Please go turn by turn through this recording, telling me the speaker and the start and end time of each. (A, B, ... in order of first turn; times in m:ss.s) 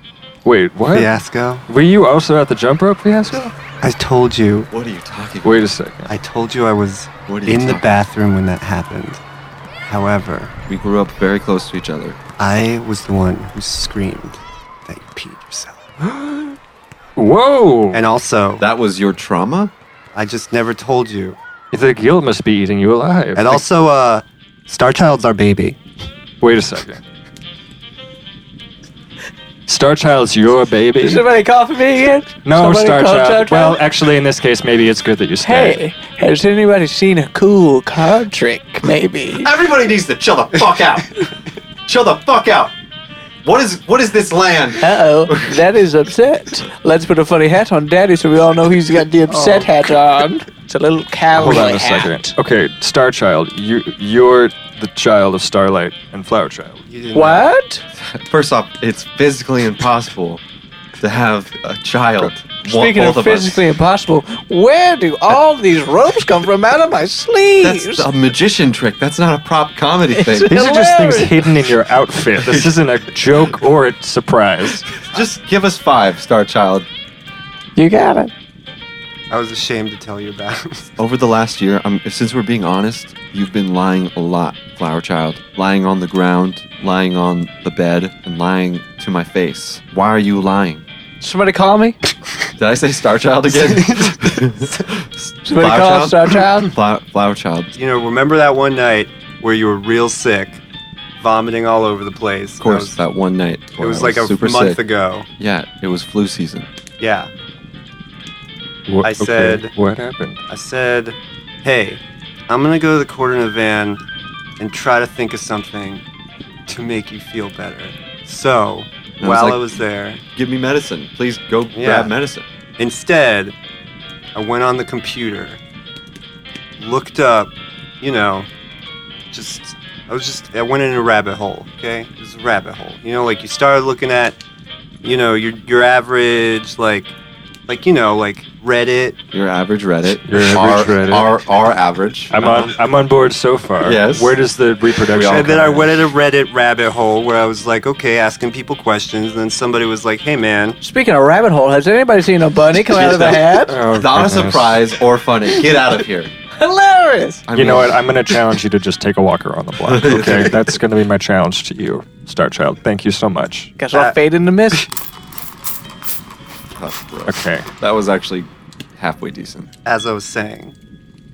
0:00.4-0:03.5 A
0:00.9-0:01.6 B
0:03.8-0:04.7 B
0:04.7-0:05.7 C
0:05.4-0:06.1 A
0:06.1-0:09.2 B
0:07.3-0:07.9 C
0:09.9-0:10.5 B
0:10.7-0:12.2 C
0:12.4-0:15.9 B
0:17.2-0:18.0 A
0:17.9-0:18.6 B
0:18.6-0:19.7 C
0:20.1-0:21.4 B
0:21.7-0:23.6 A
0:23.4-0:25.8 B
0:26.4-0:27.0 A
0:29.7-0:31.3 A
0:31.0-0:33.8 D
0:32.4-0:35.8 A
0:35.4-0:39.5 D
0:39.4-0:41.2 C
0:41.9-0:42.7 C
0:43.4-0:45.6 C
0:44.8-0:52.3 D
0:49.3-0:49.7 B
0:51.3-0:56.8 A
0:56.9-0:57.5 B
0:57.1-0:57.8 D
0:58.0-1:00.4 C
1:01.0-1:03.6 C
1:02.6-1:08.1 D
1:07.6-1:10.6 C
1:10.1-1:11.4 D
1:10.5-1:14.9 A
1:12.4-1:12.7 C
1:15.1-1:16.9 C
1:17.8-1:18.3 D
1:19.3-1:20.9 B
1:21.0-1:30.8 C
1:31.2-1:32.0 D
1:32.6-1:37.7 C
1:33.5-1:34.8 B
1:35.5-1:36.7 D
1:37.8-1:40.6 B
1:41.2-1:43.0 B
1:42.6-1:44.8 C
1:43.8-1:45.3 B
1:45.4-1:46.7 C
1:47.0-1:47.3 B
1:48.9-1:50.4 A
1:49.0-1:49.7 B
1:50.5-1:54.0 B
1:54.6-1:56.0 B
1:56.7-2:00.2 B
1:59.2-1:59.8 C
2:00.4-2:02.4 C
2:01.7-2:02.1 B
2:02.8-2:03.6 B
2:04.4-2:05.6 B
2:06.8-2:08.5 B
2:09.3-2:14.4 B
2:15.0-2:17.1 B
2:17.7-2:19.2 B
2:19.3-2:22.7 C
2:20.3-2:21.3 A
2:22.3-2:25.9 A
2:23.8-2:24.4 C
2:25.1-2:25.8 C
2:25.3-2:30.8 B
2:30.8-2:33.8 D
2:32.9-2:36.3 C
2:33.7-2:34.8 A
2:36.6-2:37.4 D
2:37.5-2:38.0 C
2:37.5-2:43.8 A
2:39.8-2:40.7 C
2:43.8-2:44.8 D
2:43.9-2:44.2 B
2:46.8-2:49.7 C
2:47.3-2:47.7 A
2:49.8-2:50.8 B